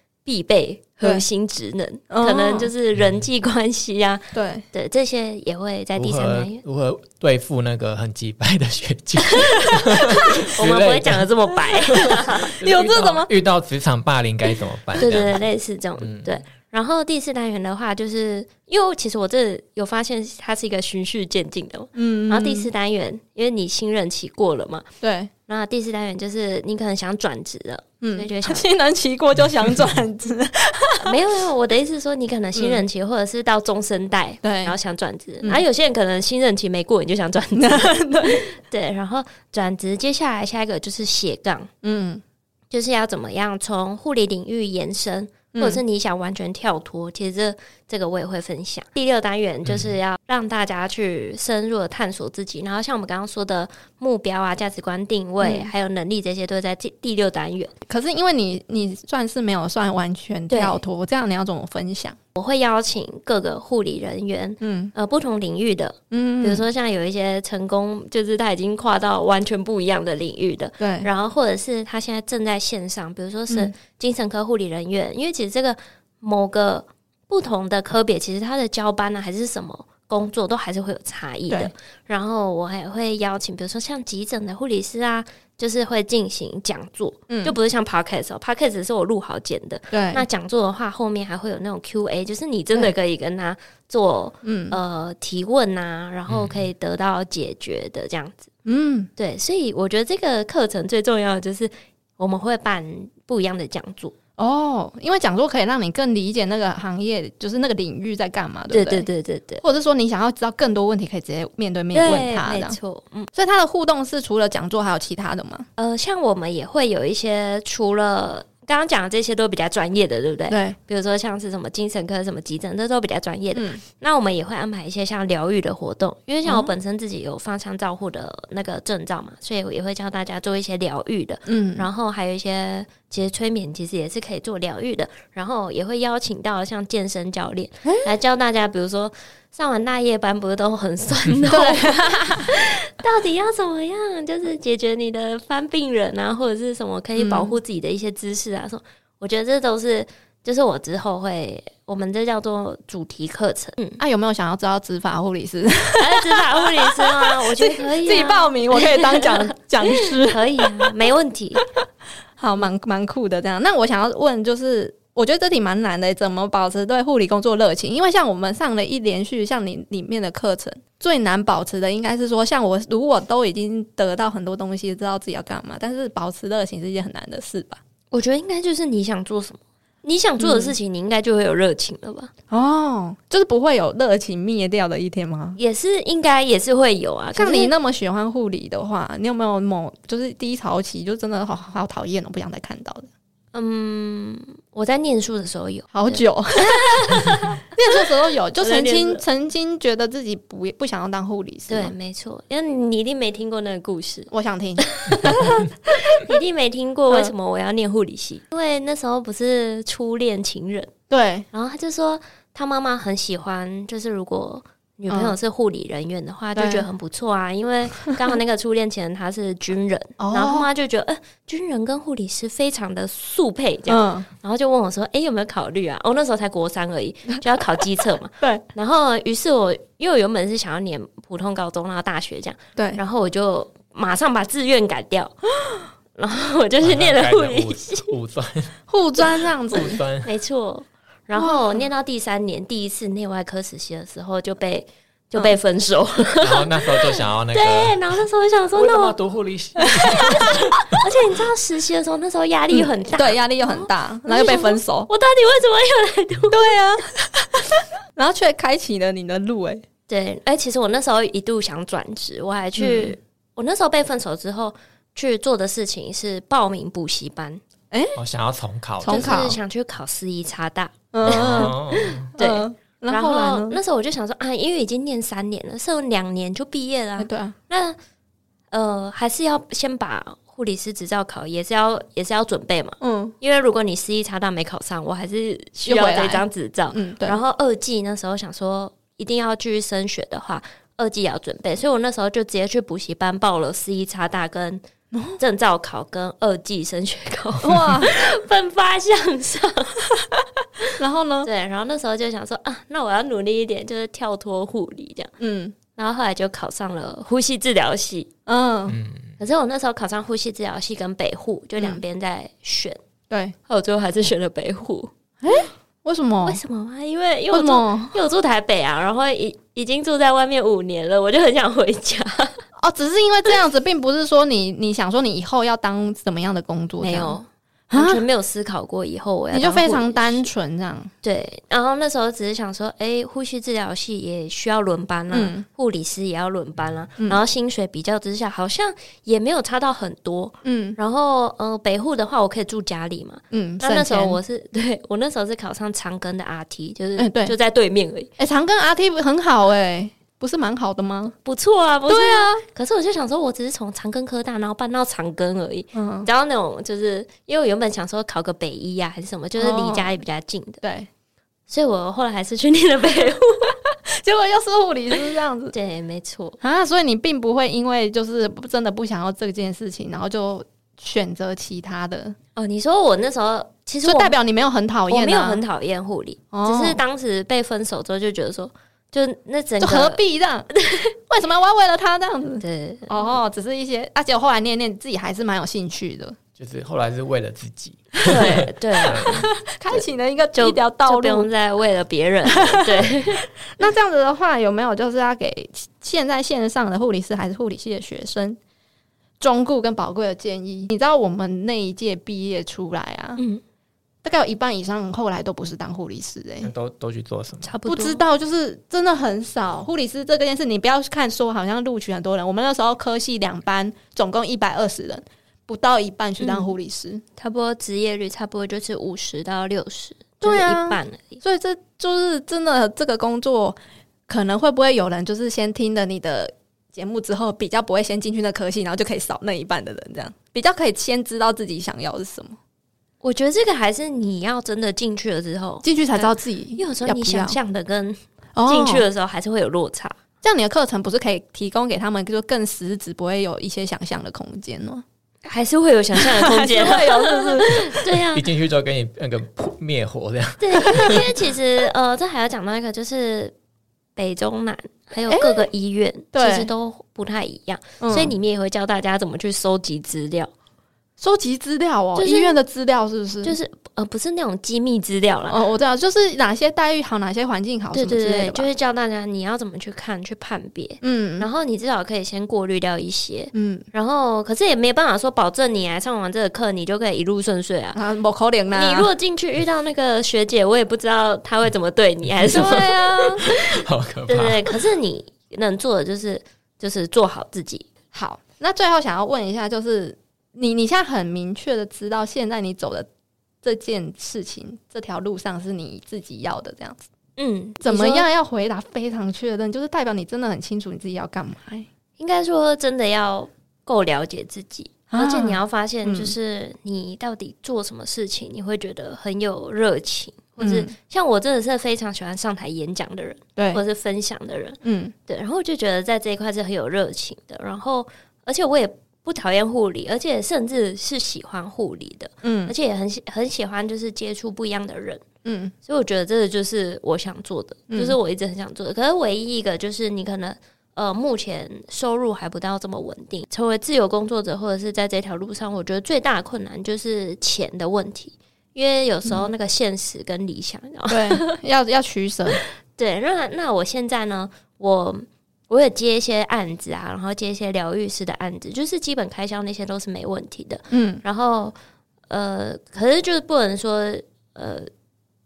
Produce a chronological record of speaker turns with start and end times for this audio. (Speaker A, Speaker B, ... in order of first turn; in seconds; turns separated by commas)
Speaker A: 0.2-6.6, Speaker B: 2.1-2.7, Speaker B: 4.3-4.6, Speaker C: 6.0-11.3, Speaker A: 10.2-12.5, Speaker C: 11.9-15.4, Speaker B: 12.6-13.3, Speaker A: 15.0-24.9, Speaker C: 16.0-16.4, Speaker B: 21.9-22.7, Speaker B: 25.0-25.3, Speaker A: 25.5-28.7, Speaker B: 28.0-31.1, Speaker A: 31.0-41.7, Speaker B: 32.5-32.8, Speaker B: 34.4-34.8, Speaker B: 37.5-38.5, Speaker B: 41.8-42.2, Speaker A: 42.7-57.7, Speaker B: 45.5-45.8, Speaker C: 49.6-49.9, Speaker B: 55.4-55.7, Speaker B: 57.9-62.2, Speaker A: 60.5-60.8, Speaker A: 62.4-98.5, Speaker B: 64.6-64.9, Speaker B: 66.1-66.6, Speaker B: 70.8-71.1, Speaker B: 87.3-87.5, Speaker B: 89.9-90.2, Speaker B: 94.4-94.8, Speaker C: 96.3-96.6, Speaker B: 98.6-99.1, Speaker A: 99.2-104.1, Speaker B: 104.4-109.1, Speaker A: 108.7-109.6, Speaker B: 109.6-112.8, Speaker A: 111.9-113.3, Speaker B: 113.3-115.7, Speaker A: 115.8-154.0, Speaker B: 120.5-120.8, Speaker B: 123.5-123.8, Speaker B: 126.4-126.7, Speaker B: 131.5-131.9, Speaker B: 141.5-142.5, Speaker B: 147.2-147.6, Speaker B: 154.0-160.9, Speaker A: 156.0-161.7, Speaker B: 162.4-177.8, Speaker A: 178.1-182.3, Speaker B: 180.4-180.7, Speaker B: 182.5-185.6, Speaker A: 185.6-187.7, Speaker B: 187.3-193.1, Speaker A: 193.5-198.0, Speaker B: 195.9-201.9, Speaker A: 198.6-199.2, Speaker A: 201.7-210.9, Speaker B: 204.3-205.4, Speaker B: 211.1-211.4, Speaker A: 211.5-235.4, Speaker B: 215.1-215.3, Speaker B: 216.6-216.8, Speaker B: 220.2-220.7, Speaker B: 223.9-224.3, Speaker A: 236.1-238.1, Speaker C: 236.8-238.7, Speaker B: 238.9-240.0, Speaker C: 239.7-240.3, Speaker A: 240.2-249.2, Speaker B: 241.4-241.8, Speaker C: 246.4-248.0, Speaker C: 248.7-251.0, Speaker A: 250.1-256.7, Speaker B: 252.7-255.1, Speaker B: 256.5-259.8, Speaker A: 260.1-267.6, Speaker B: 262.8-263.1, Speaker B: 267.9-268.1, Speaker C: 268.1-269.5, Speaker B: 269.0-269.6, Speaker A: 269.1-278.0, Speaker B: 271.1-271.8, Speaker C: 271.2-272.3, Speaker B: 272.4-273.8, Speaker B: 277.2-277.5, Speaker A: 278.7-294.8, Speaker B: 283.0-283.3, Speaker B: 285.9-287.4, Speaker B: 295.1-295.4, Speaker A: 295.4-300.0, Speaker B: 297.6-298.1, Speaker B: 300.9-301.5, Speaker A: 301.4-305.3, Speaker B: 305.4-305.7, Speaker A: 305.9-308.3, Speaker B: 308.5-309.0, Speaker C: 308.9-309.3, Speaker A: 309.4-313.0, Speaker A: 313.7-315.1, Speaker B: 315.4-316.6, Speaker A: 316.4-322.6, Speaker B: 317.5-318.1, Speaker B: 322.8-327.4, Speaker A: 327.0-330.5, Speaker B: 327.9-328.2, Speaker B: 329.5-331.1, Speaker A: 331.2-348.3, Speaker B: 335.3-335.6, Speaker B: 340.6-341.0, Speaker B: 343.5-344.4, Speaker B: 347.2-347.5, Speaker B: 348.4-351.3, Speaker A: 351.4-360.8, Speaker B: 352.1-352.6, Speaker B: 355.9-356.3, Speaker B: 359.6-360.1, Speaker B: 360.8-361.1, Speaker A: 361.7-363.8, Speaker B: 364.1-365.7, Speaker A: 365.7-366.6, Speaker B: 366.6-372.3, Speaker A: 372.6-374.3, Speaker B: 374.0-375.6, Speaker A: 375.1-380.2, Speaker B: 376.5-377.0, Speaker B: 379.8-380.7, Speaker A: 380.7-381.1, Speaker B: 381.3-386.4, Speaker A: 382.6-383.3, Speaker C: 386.6-389.5, Speaker B: 388.2-391.5, Speaker A: 388.2-389.3, Speaker A: 389.9-393.4, Speaker B: 392.5-398.6, Speaker B: 399.4-403.4, Speaker A: 403.4-403.6, Speaker B: 404.2-406.7, Speaker C: 406.6-407.7, Speaker A: 407.6-408.2, Speaker B: 407.9-417.2, Speaker A: 416.4-416.7, Speaker A: 417.4-421.4, Speaker B: 420.4-423.8, Speaker B: 424.3-432.6, Speaker A: 433.2-440.1, Speaker B: 435.8-437.6, Speaker B: 438.6-439.1, Speaker B: 440.4-445.0, Speaker A: 445.4-448.5, Speaker B: 446.2-447.9, Speaker C: 448.3-451.3, Speaker A: 450.6-453.5, Speaker A: 454.1-460.5, Speaker B: 455.3-455.6, Speaker B: 456.3-456.7, Speaker B: 458.0-458.3, Speaker B: 461.2-463.6, Speaker A: 462.1-462.6, Speaker A: 463.4-465.6, Speaker B: 465.5-468.7, Speaker A: 467.9-478.0, Speaker B: 471.0-471.5, Speaker B: 473.5-473.9, Speaker B: 477.9-479.1, Speaker A: 478.7-483.5, Speaker C: 482.4-482.8, Speaker B: 482.5-483.4, Speaker C: 483.4-484.8, Speaker A: 484.3-487.9, Speaker B: 488.1-493.1, Speaker B: 493.6-497.1, Speaker A: 497.4-498.2, Speaker B: 497.8-501.9, Speaker A: 502.2-525.2, Speaker B: 505.1-506.3, Speaker B: 510.6-510.9, Speaker B: 513.6-513.8, Speaker B: 514.8-515.1, Speaker B: 522.4-522.7, Speaker B: 525.4-525.7, Speaker A: 525.8-541.5, Speaker B: 527.9-528.1, Speaker B: 541.1-542.6, Speaker A: 542.5-551.7, Speaker B: 550.9-551.2, Speaker A: 552.3-554.9